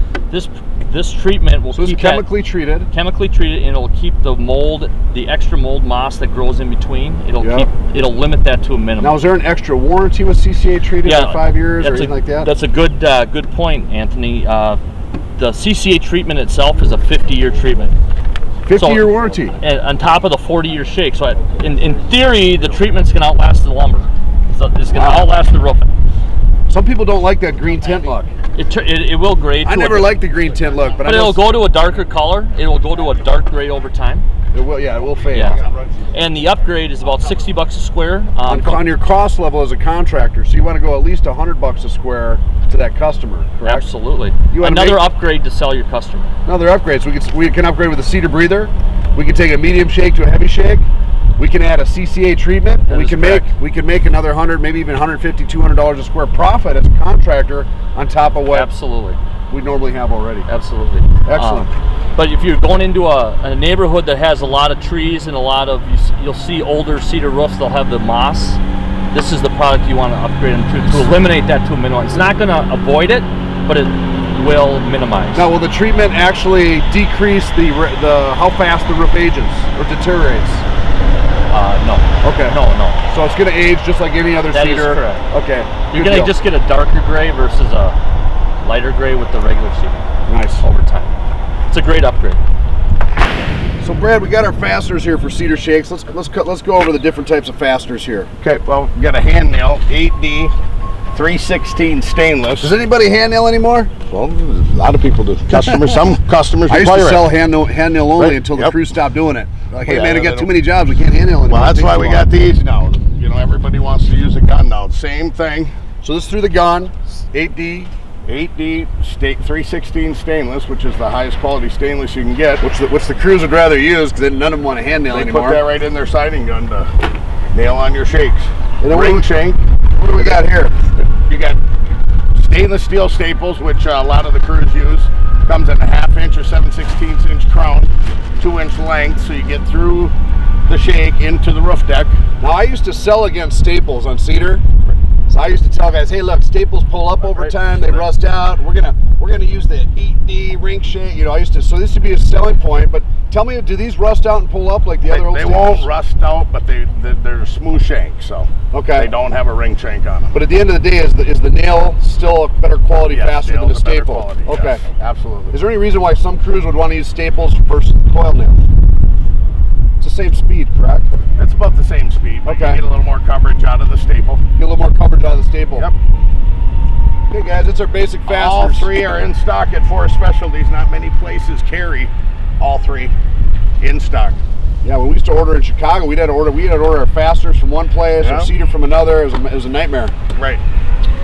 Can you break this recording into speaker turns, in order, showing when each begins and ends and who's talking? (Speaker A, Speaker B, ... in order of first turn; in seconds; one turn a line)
Speaker A: 0.3-2.3
Speaker B: 1.7-2.9
Speaker A: 2.9-9.2
Speaker B: 7.4-7.7
Speaker B: 9.0-12.5
Speaker A: 11.0-14.8
Speaker A: 15.3-17.9
Speaker B: 18.6-19.5
Speaker A: 18.8-25.9
Speaker B: 24.9-25.3
Speaker B: 26.7-28.3
Speaker A: 28.5-30.1
Speaker B: 29.6-31.5
Speaker A: 31.0-34.2
Speaker B: 34.5-35.7
Speaker A: 35.3-35.6
Speaker C: 35.6-35.9
Speaker A: 36.1-38.9
Speaker B: 38.5-43.8
Speaker A: 43.6-46.3
Speaker B: 44.5-45.0
Speaker B: 46.5-58.7
Speaker A: 52.9-53.5
Speaker A: 58.5-59.2
Speaker B: 59.5-60.5
Speaker A: 60.5-75.5
Speaker B: 61.2-61.7
Speaker B: 75.3-80.6
Speaker A: 81.5-83.0
Speaker B: 82.2-82.6
Speaker B: 83.1-86.3
Speaker A: 84.5-85.2
Speaker A: 85.9-88.0
Speaker A: 88.6-90.0
Speaker B: 90.3-90.6
Speaker A: 90.6-91.2
Speaker A: 91.7-92.4
Speaker B: 93.8-98.4
Speaker C: 98.4-100.5
Speaker C: 101.1-102.8
Speaker B: 102.6-103.9
Speaker C: 104.1-107.3
Speaker B: 105.5-105.9
Speaker B: 106.7-112.3
Speaker C: 108.2-108.8
Speaker C: 109.8-110.5
Speaker C: 111.5-115.7
Speaker B: 116.0-117.9
Speaker C: 118.2-122.6
Speaker B: 122.6-125.7
Speaker C: 125.1-126.9
Speaker C: 127.5-129.6
Speaker B: 128.8-129.3
Speaker B: 129.9-130.8
Speaker C: 130.1-130.4
Speaker C: 131.1-131.6
Speaker C: 132.3-140.1
Speaker C: 140.7-142.2
Speaker B: 142.4-144.6
Speaker B: 145.3-155.9
Speaker C: 147.2-148.0
Speaker C: 155.0-160.3
Speaker B: 158.7-159.1
Speaker B: 160.3-164.8
Speaker C: 163.0-165.6
Speaker B: 165.5-168.6
Speaker B: 170.0-171.1
Speaker C: 171.3-174.4
Speaker B: 172.4-172.8
Speaker B: 174.6-175.9
Speaker B: 177.3-178.9
Speaker C: 178.3-183.1
Speaker C: 183.8-184.4
Speaker B: 184.8-190.1
Speaker C: 188.1-188.5
Speaker C: 190.3-190.6